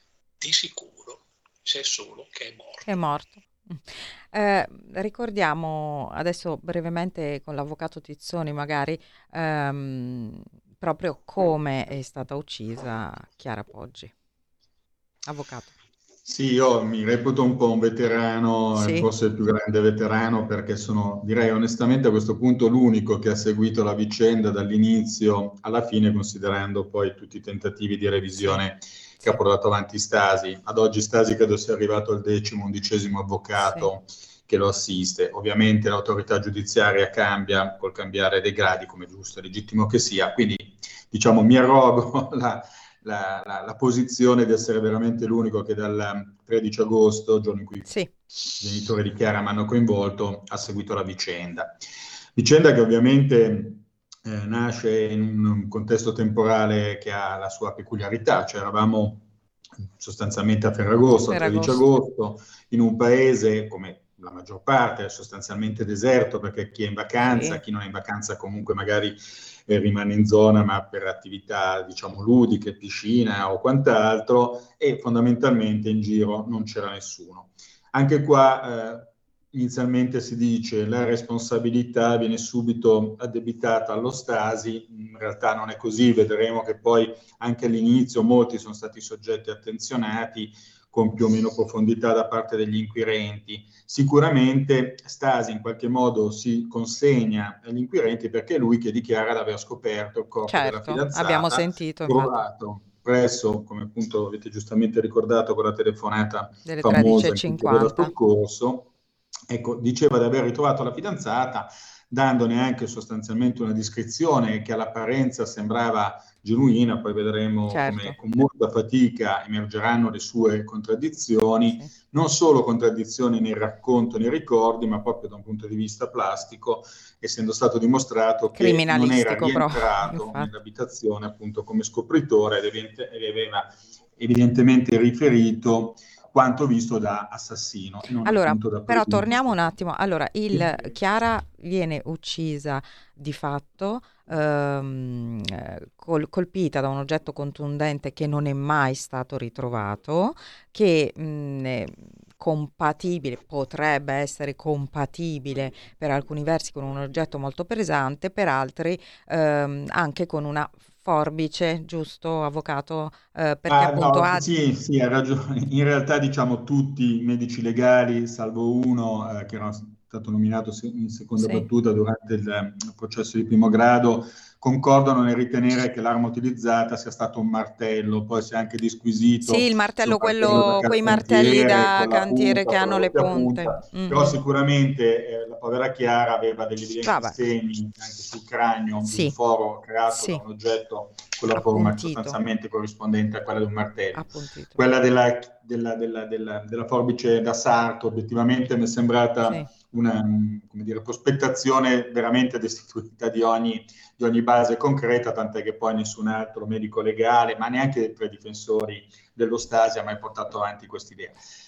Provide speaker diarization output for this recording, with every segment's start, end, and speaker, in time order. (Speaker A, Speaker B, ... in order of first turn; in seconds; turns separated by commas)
Speaker A: 0.4-3.0, Speaker B: 2.9-14.1, Speaker B: 15.3-15.7, Speaker C: 16.2-47.9, Speaker B: 18.7-19.1, Speaker B: 33.6-33.9, Speaker B: 47.9-48.1, Speaker C: 48.6-51.8, Speaker C: 52.4-59.2, Speaker C: 60.0-108.9, Speaker B: 61.2-61.9, Speaker B: 67.2-67.6, Speaker B: 100.5-102.4, Speaker B: 106.7-108.1, Speaker C: 109.5-139.6, Speaker B: 117.7-118.2, Speaker B: 121.7-121.9, Speaker B: 128.6-130.5, Speaker B: 138.2-164.5, Speaker C: 140.5-140.8, Speaker C: 163.7-211.4, Speaker B: 171.4-171.7, Speaker B: 179.4-184.4, Speaker B: 187.0-187.4, Speaker B: 189.0-189.3, Speaker B: 190.1-190.4, Speaker B: 191.5-192.4, Speaker B: 194.1-194.8